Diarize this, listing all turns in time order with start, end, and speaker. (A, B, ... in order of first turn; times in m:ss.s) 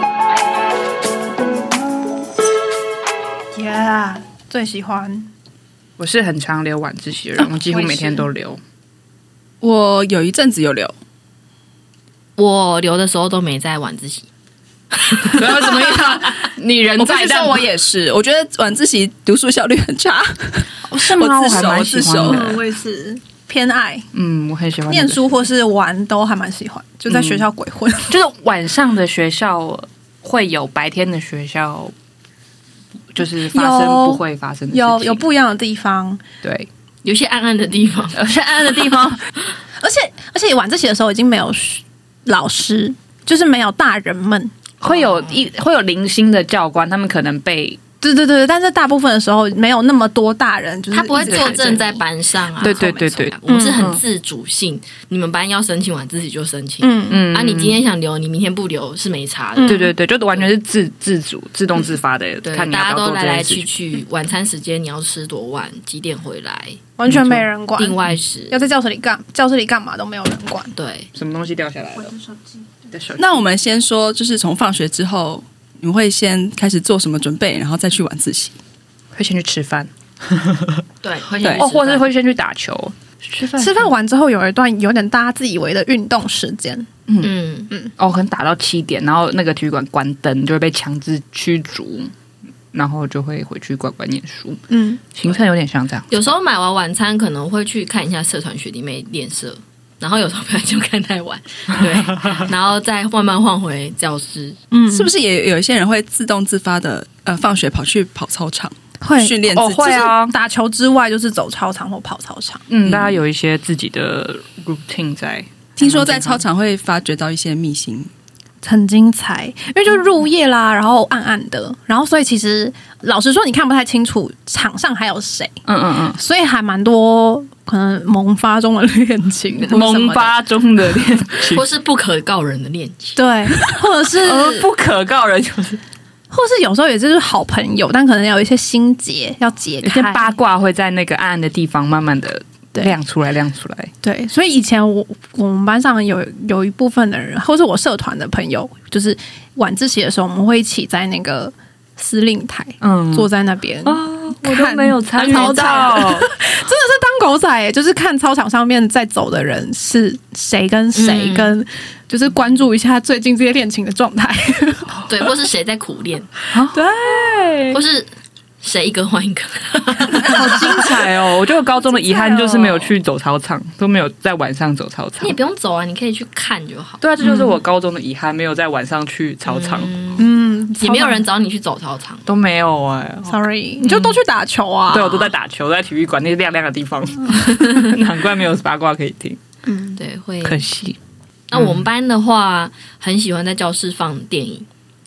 0:03.5-0:05.3 A
0:06.0-0:08.6 B
0:07.4-0:08.3 A
0:09.6-0:10.9 C
0:12.4-0:14.3 D
0:14.9-0:16.1 D
0:15.3-0:17.6 B
0:17.0-0:22.4 C
0:20.8-0:22.6 B
0:22.2-0:24.1 A
0:24.1-0:25.4 B
0:24.9-0:28.1 A
0:27.1-0:27.5 B
0:28.1-0:31.9 B
0:33.1-0:35.2 B
0:33.4-0:36.2 A
0:36.4-0:36.7 B
0:37.0-0:38.2 D
0:38.1-0:39.2 B
0:39.8-0:44.5 A
0:44.8-0:47.8 B
0:44.9-0:45.4 D
0:48.0-0:52.0 A
0:50.9-1:00.5 D
0:51.2-0:51.8 B
0:52.6-0:53.8 A
0:52.6-0:54.0 B
0:56.8-0:57.2 A
0:57.1-0:57.8 B
0:59.6-0:59.9 A
0:59.6-1:03.7 B
1:02.4-1:06.8 D
1:07.0-1:08.0 A
1:07.1-1:07.5 B
1:07.8-1:08.6 D
1:08.5-1:10.7 A
1:10.8-1:11.1 D
1:11.1-1:12.1 B
1:12.0-1:12.6 A
1:12.9-1:13.5 B
1:13.2-1:18.6 C
1:19.2-1:20.8 B
1:21.0-1:22.1 D
1:21.5-1:23.9 B
1:23.6-1:26.9 A
1:27.1-1:27.3 B
1:27.2-1:27.7 D
1:28.0-1:32.1 B
1:32.7-1:34.6 B
1:34.7-1:35.1 A
1:35.1-1:36.3 B
1:36.1-1:44.6 D
1:44.7-1:45.1 A
1:44.9-1:49.9 C
1:49.0-1:52.6 A
1:49.5-1:50.3 B
1:52.7-1:56.4 B
1:55.8-1:58.1 C
1:58.6-2:05.6 A
2:05.7-2:06.2 B
2:06.1-2:10.4 A
2:09.7-2:11.6 B
2:11.4-2:13.2 D
2:13.2-2:14.7 A
2:14.2-2:15.8 B
2:16.3-2:20.3 A
2:19.8-2:23.9 B
2:24.0-2:45.0 A
2:32.8-2:33.3 B
2:33.8-2:36.3 B
2:35.3-2:35.9 D
2:40.9-2:41.6 D
2:45.1-2:46.3 D
2:46.5-2:47.8 B
2:46.7-2:47.5 A
2:47.7-2:48.1 D
2:48.6-2:50.8 D
2:50.2-2:55.4 B
2:50.4-2:51.1 A
2:51.8-2:52.9 A
2:55.2-2:57.0 D
2:57.0-2:59.9 B
2:57.2-2:57.5 A
2:59.4-3:00.3 D
3:00.2-3:01.2 A
3:00.8-3:02.3 D
3:02.2-3:04.2 B
3:03.3-3:05.3 A
3:04.9-3:09.4 B
3:09.7-3:10.0 A
3:10.0-3:10.6 D
3:10.4-3:11.0 B
3:11.5-3:14.7 D
3:11.5-3:11.8 B